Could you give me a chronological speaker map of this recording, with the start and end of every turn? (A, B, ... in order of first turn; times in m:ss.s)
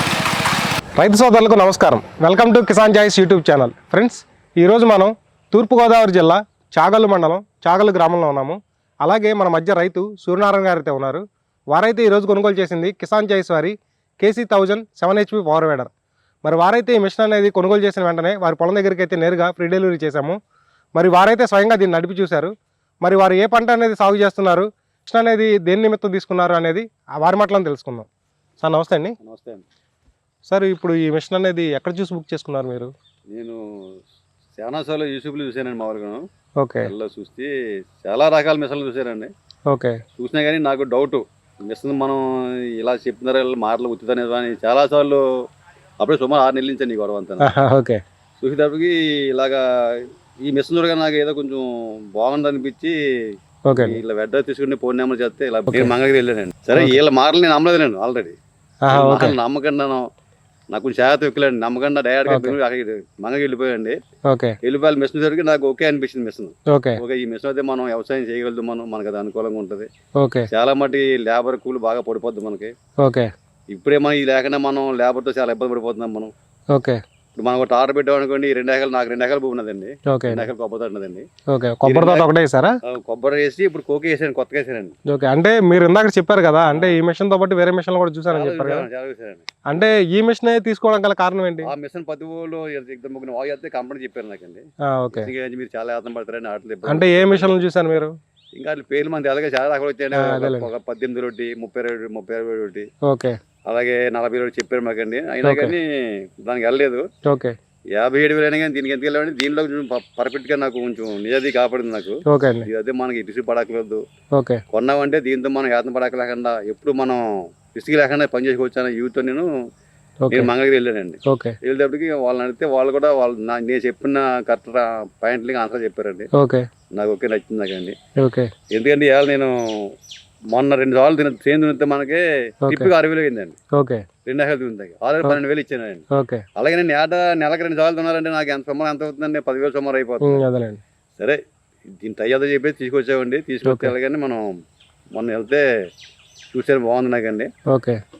0:01.0-0:15.9 A
0:16.4-0:20.4 A
0:20.9-0:28.1 A
0:28.6-0:29.2 A
0:29.2-0:29.6 B
0:30.5-0:32.9 A
0:33.3-0:33.6 B
0:34.6-0:36.2 B
0:36.6-0:36.9 A
0:36.8-0:37.5 B
0:38.0-0:39.3 B
0:39.7-0:40.0 A
0:40.2-0:45.2 B
0:46.0-0:47.5 B
0:47.4-0:48.0 A
0:48.4-0:52.9 B
0:53.6-0:54.0 A
0:53.8-0:58.3 B
0:58.8-0:59.4 A
0:58.9-1:00.0 B
1:00.7-1:04.0 B
1:02.3-1:02.6 A
1:04.3-1:04.6 A
1:04.6-1:09.9 B
1:06.7-1:07.0 A
1:10.2-1:10.5 A
1:10.5-1:12.7 B
1:13.0-1:13.3 A
1:13.7-1:16.3 B
1:16.7-1:17.0 A
1:17.4-1:21.2 B
1:20.1-1:20.5 A
1:21.5-1:22.7 A
1:21.8-1:22.3 B
1:22.9-1:24.9 B
1:25.1-1:28.9 A
1:26.7-1:27.0 B
1:28.3-1:29.4 B
1:29.7-1:31.7 A
1:31.6-1:37.5 B
1:34.9-1:35.3 A
1:36.9-1:38.1 A
1:38.6-1:42.9 B
1:40.1-1:40.7 A
1:43.0-1:43.4 A
1:43.6-1:47.0 B
1:45.4-1:45.7 A
1:47.2-1:47.6 A
1:47.9-1:54.0 B
1:52.2-1:52.7 A
1:54.3-1:54.6 A
1:54.7-1:59.5 B
2:00.2-2:00.5 A
2:00.3-2:06.3 B
2:01.2-2:01.6 A
2:06.3-2:06.7 A
2:06.9-2:08.0 B
2:08.2-2:08.5 A
2:08.7-2:09.9 B
2:10.5-2:13.6 B
2:12.6-2:12.9 A
2:13.7-2:14.0 A
2:14.2-2:16.0 B
2:16.1-2:16.4 A
2:16.6-2:20.4 B
2:20.2-2:20.8 A
2:22.0-2:24.5 B
2:23.6-2:23.9 A
2:25.1-2:25.6 B
2:26.5-2:27.5 B
2:27.7-2:28.0 A